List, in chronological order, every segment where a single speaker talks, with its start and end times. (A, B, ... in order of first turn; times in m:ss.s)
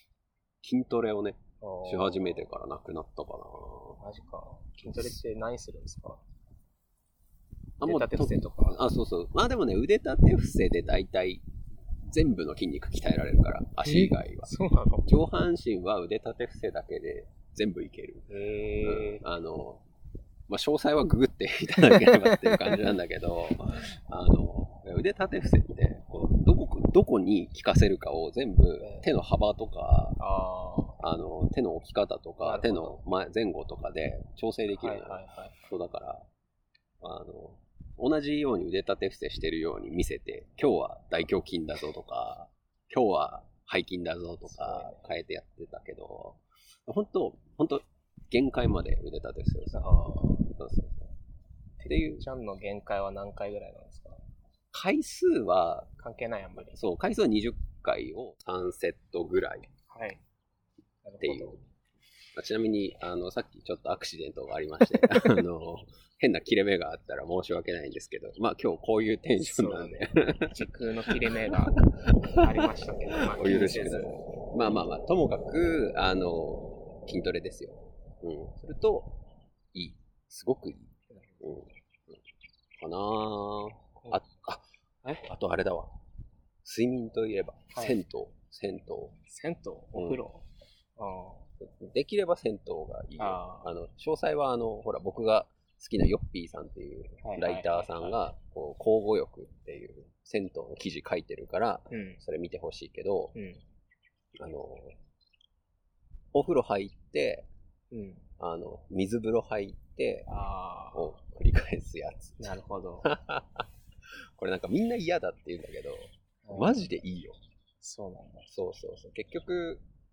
0:00.6-0:04.0 A
0:01.6-0:02.5 B
0:04.0-0:06.2 B
0:04.8-0:05.2 A
0:07.8-0:11.4 A
0:07.8-0:08.8 B
0:12.0-0:14.5 A
0:13.8-0:15.1 B
0:15.0-0:18.3 A
0:18.3-0:19.2 B
0:18.8-0:19.8 A
0:20.5-0:30.2 A
0:21.9-0:22.6 B
0:28.8-0:29.1 B
0:30.2-0:31.0 B
0:31.0-0:36.3 A
0:32.4-0:33.0 B
0:34.7-0:35.6 B
0:37.0-0:51.1 A
0:44.4-0:45.0 B
0:49.7-0:50.5 B
0:51.8-0:54.2 B
0:51.8-0:52.3 A
0:54.7-0:55.9 A
0:56.0-0:56.8 B
0:56.7-0:59.7 A
0:59.9-1:00.2 B
1:01.0-1:01.6 B
1:01.2-1:01.6 A
1:02.3-1:22.2 A
1:09.4-1:14.2 B
1:21.1-1:21.5 B
1:22.8-1:26.0 A
1:26.6-1:29.2 A
1:27.7-1:28.0 B
1:29.3-1:31.5 B
1:29.9-1:30.2 A
1:31.6-1:43.3 A
1:33.2-1:33.7 B
1:37.2-1:38.2 B
1:41.9-1:42.2 B
1:43.3-1:43.6 B
1:44.4-1:45.0 A
1:46.3-1:47.5 A
1:47.9-1:48.2 B
1:48.4-1:50.3 A
1:50.3-1:51.2 B
1:50.9-1:53.7 A
1:52.4-1:53.1 B
1:54.4-1:57.4 A
1:56.4-1:57.0 B
1:57.8-1:58.5 B
1:58.5-1:59.8 A